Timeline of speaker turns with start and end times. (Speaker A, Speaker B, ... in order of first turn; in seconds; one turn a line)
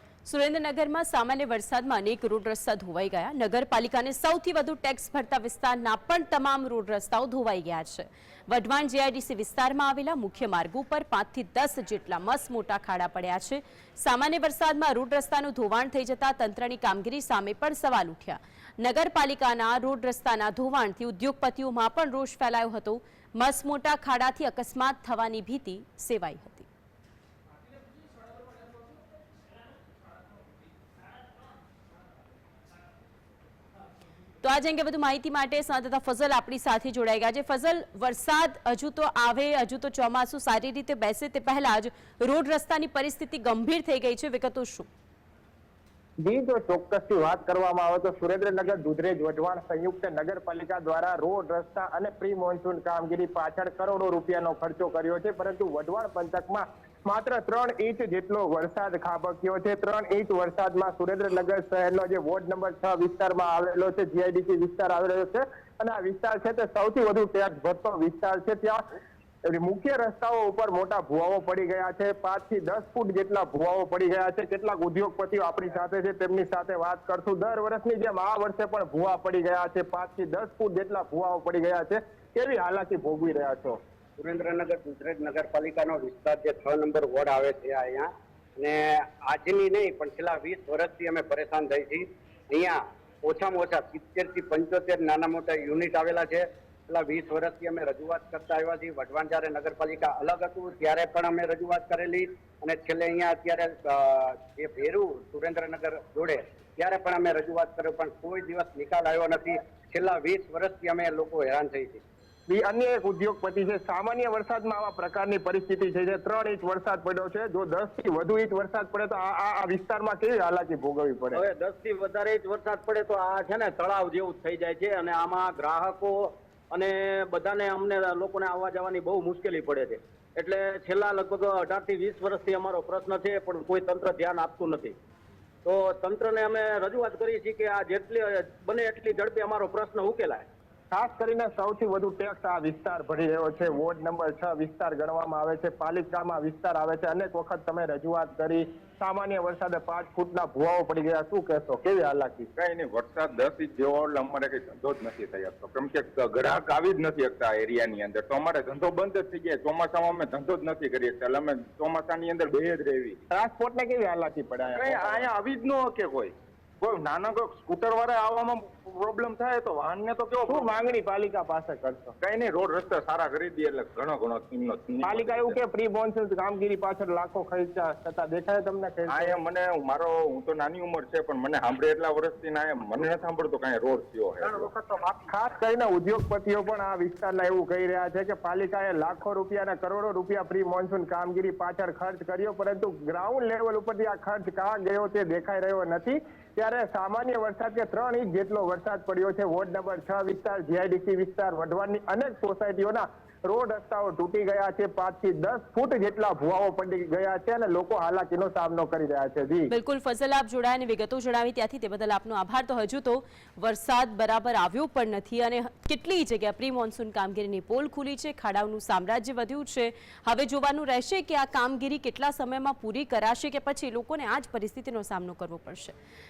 Speaker A: 0.3-26.7
Speaker A: 34.4-44.9
Speaker B: 46.2-68.9
Speaker B: 69.5-83.8
Speaker C: 84.2-112.0
Speaker B: 112.5-121.4
Speaker D: 121.5-126.1
Speaker D: 127.4-129.6
Speaker D: 130.4-132.1
Speaker D: 136.1-140.1
Speaker B: 140.9-152.5
Speaker E: 152.6-163.2
Speaker B: 163.3-165.3
Speaker E: 164.8-170.8
Speaker B: 170.5-172.2
Speaker E: 172.2-175.6
Speaker B: 175.0-179.4
Speaker E: 179.1-184.7
Speaker B: 184.4-209.7
Speaker A: 209.7-225.9